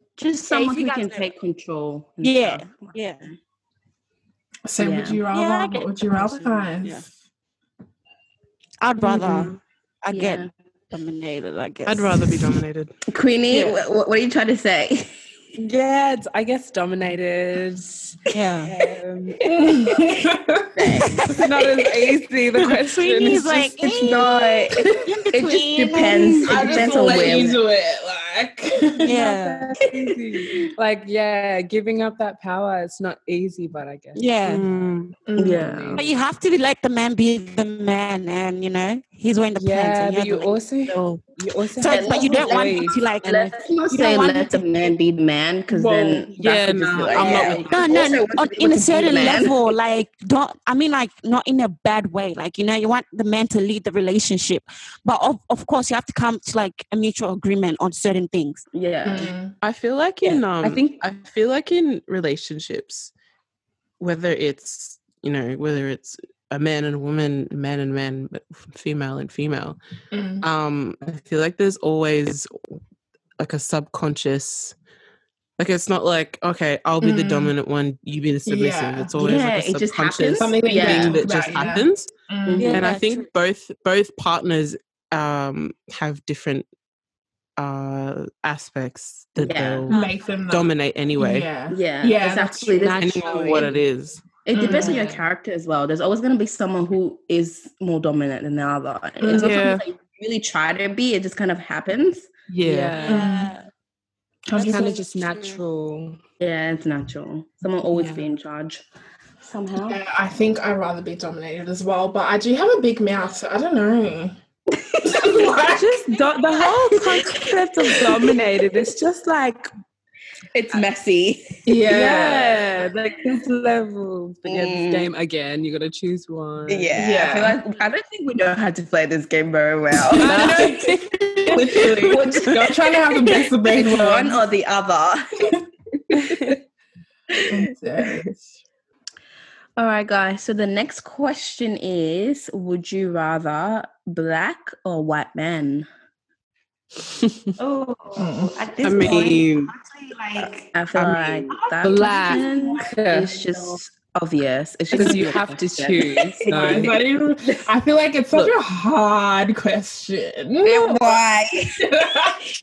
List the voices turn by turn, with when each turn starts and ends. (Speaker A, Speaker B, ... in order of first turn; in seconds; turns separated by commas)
Speaker A: 0.2-3.0, Speaker B: 0.4-1.3, Speaker B: 2.2-3.3, Speaker C: 4.7-7.1, Speaker A: 4.8-5.2, Speaker B: 5.3-7.0, Speaker B: 8.8-12.6, Speaker A: 10.1-10.5, Speaker D: 11.9-12.9, Speaker A: 13.1-15.1, Speaker B: 13.5-13.8, Speaker E: 15.6-20.0, Speaker B: 18.3-18.7, Speaker C: 19.4-20.7, Speaker A: 20.8-21.3, Speaker B: 21.0-22.0, Speaker E: 21.3-23.8, Speaker B: 22.8-27.5, Speaker A: 23.8-27.6, Speaker C: 26.5-29.2, Speaker B: 29.0-29.7, Speaker E: 29.1-36.1, Speaker B: 34.1-34.7, Speaker D: 34.5-35.1, Speaker C: 35.3-35.7, Speaker A: 35.4-36.0, Speaker B: 36.0-41.2, Speaker E: 39.6-43.0, Speaker B: 41.7-44.9, Speaker A: 41.8-49.6, Speaker C: 45.7-46.3, Speaker D: 46.4-47.7, Speaker B: 47.1-58.7, Speaker A: 58.7-59.3, Speaker C: 59.0-59.5, Speaker D: 59.6-63.1, Speaker A: 60.2-60.8, Speaker D: 64.0-69.8, Speaker C: 70.1-70.5, Speaker D: 70.4-72.5, Speaker D: 73.4-74.8, Speaker D: 75.6-82.1, Speaker C: 77.0-77.5, Speaker C: 78.5-79.5, Speaker A: 79.2-81.3, Speaker C: 80.4-82.8, Speaker A: 82.5-82.9, Speaker B: 82.6-83.3, Speaker D: 82.7-86.7, Speaker D: 87.6-89.9, Speaker A: 89.4-89.9, Speaker B: 89.9-90.2, Speaker C: 89.9-92.9, Speaker D: 90.5-91.5, Speaker A: 91.7-93.7, Speaker E: 92.8-93.8, Speaker D: 93.0-94.4, Speaker A: 94.4-103.0, Speaker C: 94.5-95.0, Speaker E: 94.6-95.2, Speaker C: 99.2-99.6, Speaker D: 99.3-99.8, Speaker D: 102.5-103.0, Speaker E: 102.7-103.3, Speaker B: 103.0-103.7, Speaker C: 103.0-103.5, Speaker C: 104.5-105.0, Speaker B: 104.5-105.6, Speaker E: 104.6-106.2, Speaker A: 106.4-108.8, Speaker E: 107.9-108.3, Speaker A: 109.4-110.0, Speaker C: 109.9-114.4, Speaker C: 115.0-115.9, Speaker A: 115.1-115.5, Speaker E: 115.5-119.7, Speaker A: 116.6-118.4, Speaker A: 120.5-122.9, Speaker C: 121.7-122.6, Speaker E: 121.9-127.0, Speaker A: 124.5-125.1, Speaker A: 126.7-135.6, Speaker C: 127.0-127.6, Speaker E: 130.1-131.8, Speaker C: 130.2-134.4, Speaker A: 136.1-136.5, Speaker E: 136.1-136.6, Speaker C: 137.5-138.4, Speaker A: 139.8-145.9, Speaker B: 147.6-150.8, Speaker C: 148.2-148.6, Speaker D: 148.8-149.7, Speaker A: 150.4-157.7, Speaker D: 150.9-151.5, Speaker B: 151.5-153.8, Speaker E: 151.8-153.3, Speaker E: 154.9-157.0, Speaker C: 156.5-161.2, Speaker A: 160.6-161.8, Speaker C: 161.8-162.4